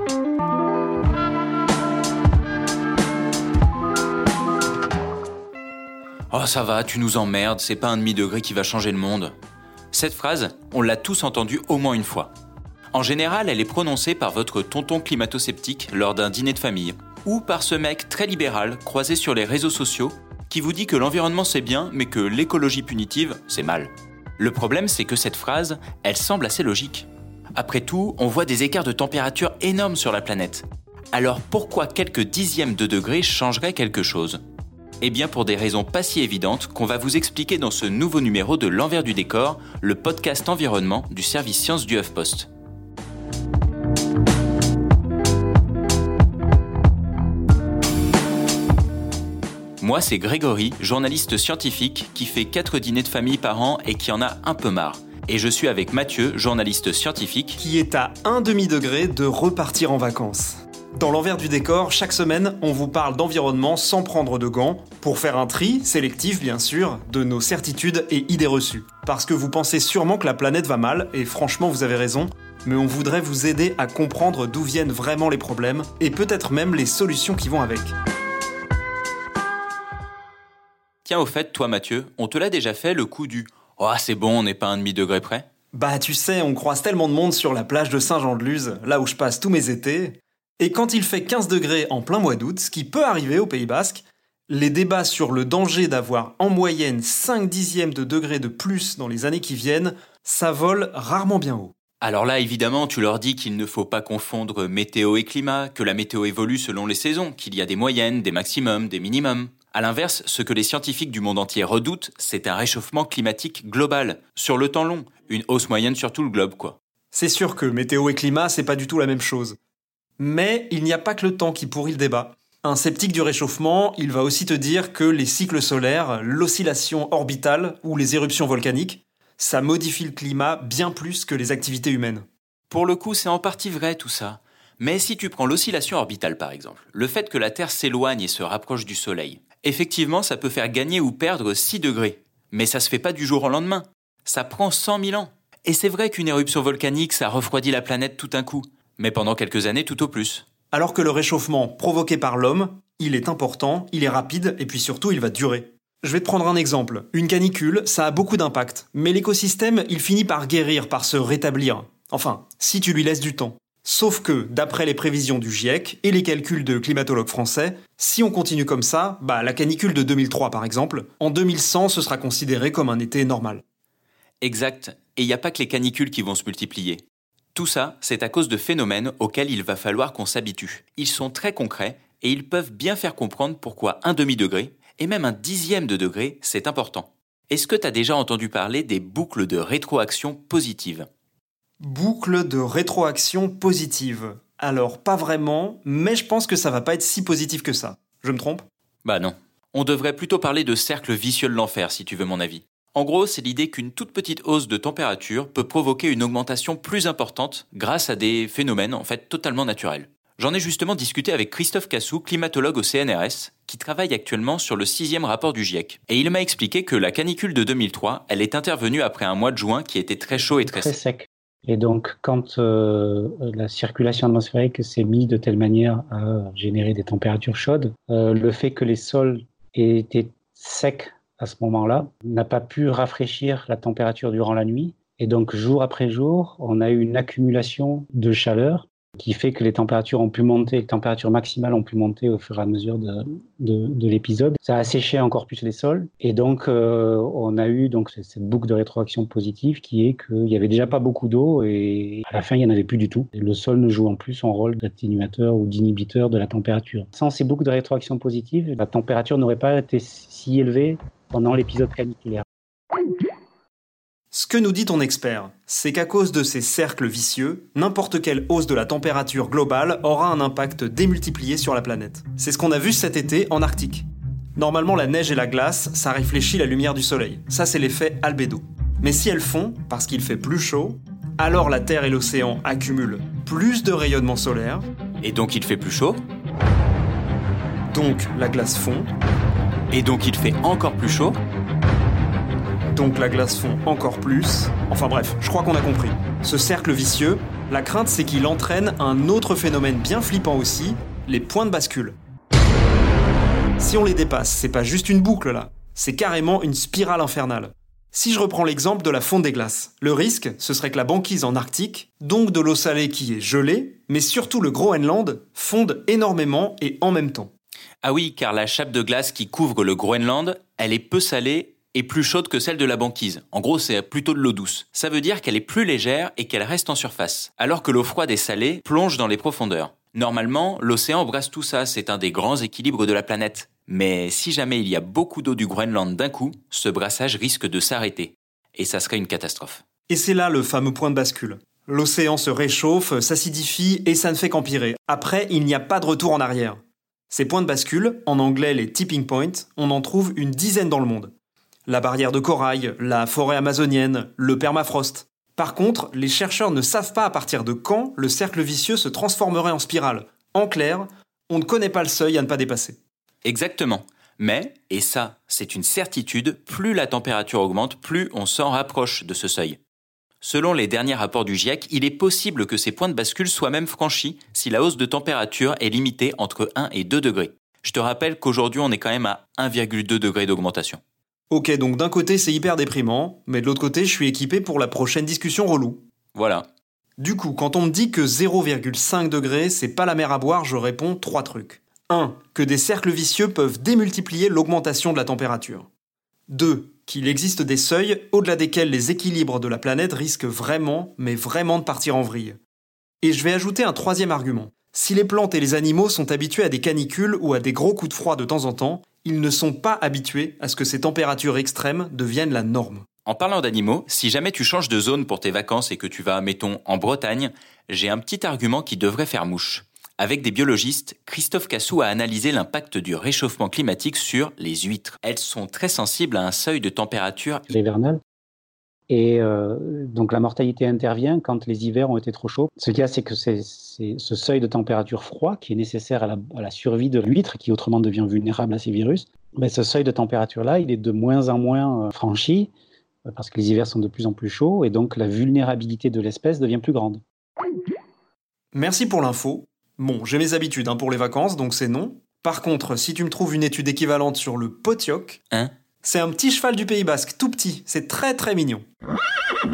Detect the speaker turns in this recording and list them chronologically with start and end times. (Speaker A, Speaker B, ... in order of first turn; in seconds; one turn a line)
Speaker A: 6.3-9.3
Speaker A: 9.9-12.3
Speaker A: 12.9-34.4
Speaker A: 35.0-42.5
Speaker A: 49.8-57.6
Speaker B: 57.6-77.9
Speaker A: 81.0-85.5
Speaker B: 85.7-101.7
Speaker A: 102.0-116.8
Speaker B: 117.1-119.6
Speaker B: 120.2-132.2
Speaker A: 132.7-150.4
Speaker B: 150.7-173.6
Speaker A: 174.4-177.0
Speaker A: 177.5-191.1
Speaker B: 191.8-198.6
Speaker A: 199.0-221.0
Speaker C: 220.4-262.4
Speaker B: 264.3-284.9
Speaker A: 285.2-286.2
Speaker B: 287.9-289.1
Speaker A: 289.9-291.4
Speaker B: 292.9-302.2
Speaker B: 303.8-317.5
Speaker A: 318.0-339.8
Speaker B: 340.1-351.3
Speaker B: 351.9-363.0
Speaker A: 363.4-369.8
Speaker A: 370.4-381.0
Speaker B: 381.5-386.0
Speaker A: 386.3-386.6
Speaker B: 387.2-395.9
Speaker B: 396.5-402.6
Speaker B: 403.2-413.1
Speaker A: 413.2-427.7
Speaker C: 427.7-428.2
Speaker C: 429.1-442.7
Speaker C: 443.3-447.2
Speaker B: 448.7-455.4
Speaker B: 456.0-458.8